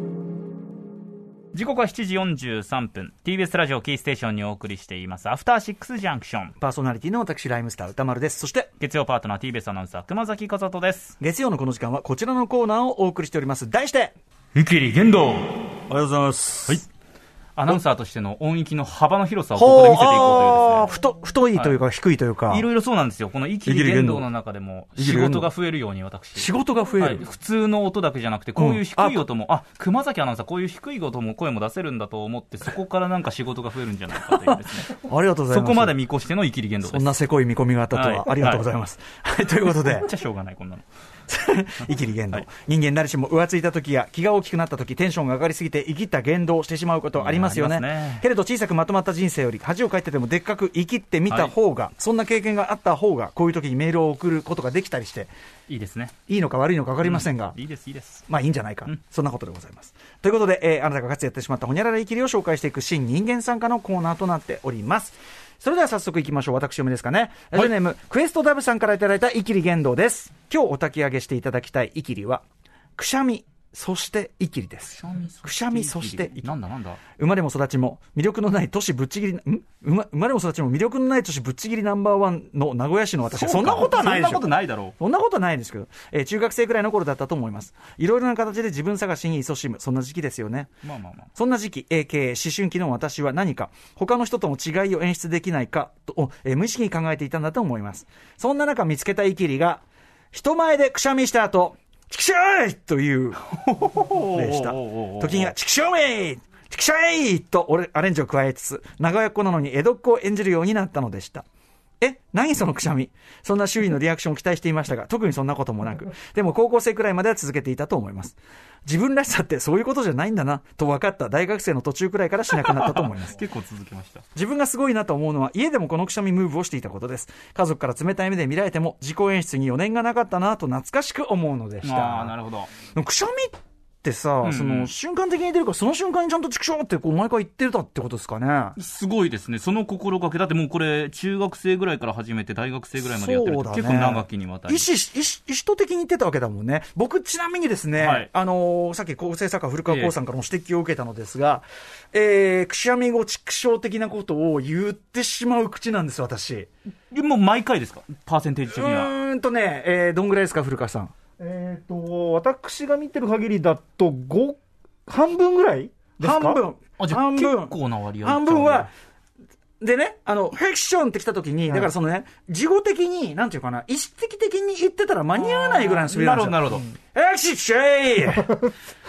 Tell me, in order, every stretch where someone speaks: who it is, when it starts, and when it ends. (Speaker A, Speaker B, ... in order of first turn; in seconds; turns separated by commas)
Speaker A: 1.5-6.5, Speaker B: 6.6-8.7, Speaker A: 8.8-11.2, Speaker B: 11.2-14.2, Speaker A: 14.6-15.6, Speaker B: 15.9-16.8, Speaker A: 17.6-20.9, Speaker B: 19.6-22.6, Speaker A: 22.5-34.9, Speaker B: 23.6-24.3, Speaker B: 25.0-25.5, Speaker B: 26.4-27.2, Speaker B: 28.6-29.2, Speaker B: 34.3-36.0, Speaker A: 35.5-37.2, Speaker B: 36.8-40.1, Speaker A: 37.9-38.7, Speaker A: 39.7-40.9, Speaker B: 41.3-55.3, Speaker A: 47.1-48.2, Speaker A: 51.3-51.5, Speaker A: 55.7-56.1, Speaker B: 56.3-57.6, Speaker A: 57.0-58.2, Speaker B: 58.3-72.5, Speaker B: 73.0-76.5, Speaker A: 75.0-77.0, Speaker B: 77.2-90.7, Speaker A: 83.2-85.0, Speaker A: 90.8-91.3, Speaker B: 91.4-103.4, Speaker A: 103.5-105.5, Speaker B: 104.1-111.5, Speaker B: 112.0-123.4, Speaker A: 122.6-124.2, Speaker B: 124.3-138.8, Speaker A: 131.8-132.7, Speaker A: 134.4-134.9, Speaker A: 138.8-144.9, Speaker B: 143.0-156.7, Speaker A: 148.0-148.3, Speaker A: 157.1-159.1, Speaker B: 158.7-161.1, Speaker C: 161.4-166.6, Speaker B: 166.2-168.9, Speaker A: 167.0-168.9, Speaker B: 169.8-178.6, Speaker A: 175.3-176.9